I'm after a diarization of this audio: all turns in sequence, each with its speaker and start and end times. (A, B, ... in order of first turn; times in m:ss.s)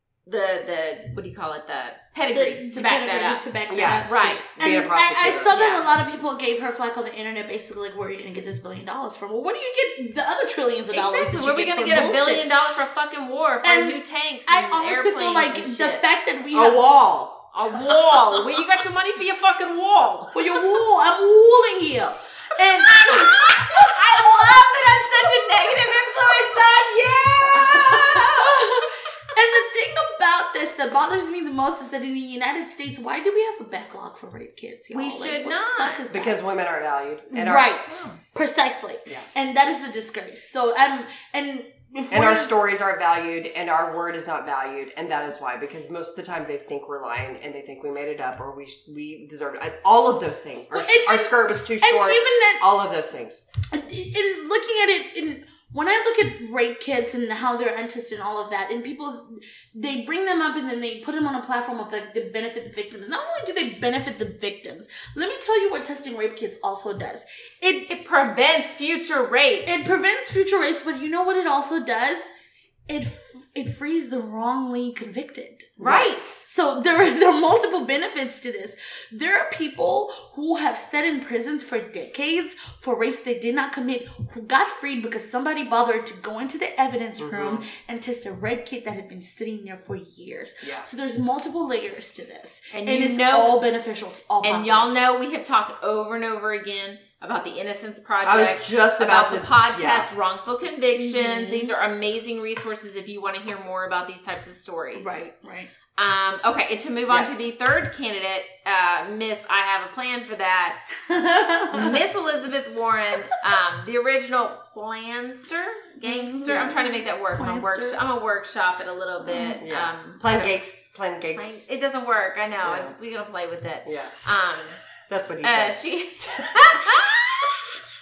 0:00.2-0:03.4 A
0:02.3-0:12.5 B
0:03.7-0:05.6 C
0:04.0-0:04.4 A
0:05.5-0:05.9 A
0:10.9-0:16.0 A
0:13.6-0:17.0 B
0:16.5-0:17.5 C
0:17.5-0:20.3 A
0:20.3-0:24.7 B
0:22.8-0:28.6 A
0:27.6-0:36.4 B
0:34.9-0:36.0 A
0:36.1-0:37.7 C
0:37.3-0:42.5 B
0:37.9-0:38.2 A
0:42.1-0:53.5 C
0:50.7-0:52.6 B
0:53.7-1:07.9 B
1:07.9-1:09.8 A
1:09.6-1:12.3 B
1:12.9-1:15.8 B
1:15.8-1:16.3 A
1:15.8-1:16.4 C
1:16.4-1:35.0 B
1:27.2-1:27.6 C
1:30.6-1:30.9 C
1:32.7-1:33.6 A
1:34.4-1:45.2 A
1:38.2-1:40.1 C
1:40.9-1:41.7 B
1:44.9-1:45.7 B
1:45.9-1:50.8 A
1:51.1-1:52.0 B
1:51.7-2:00.5 A
1:56.0-1:58.0 B
1:56.5-1:56.8 C
1:59.2-1:59.6 B
1:59.6-2:01.6 C
2:01.4-2:04.8 A
2:02.6-2:02.9 C
2:03.8-2:04.2 C
2:05.1-2:07.1 C
2:05.4-2:07.5 A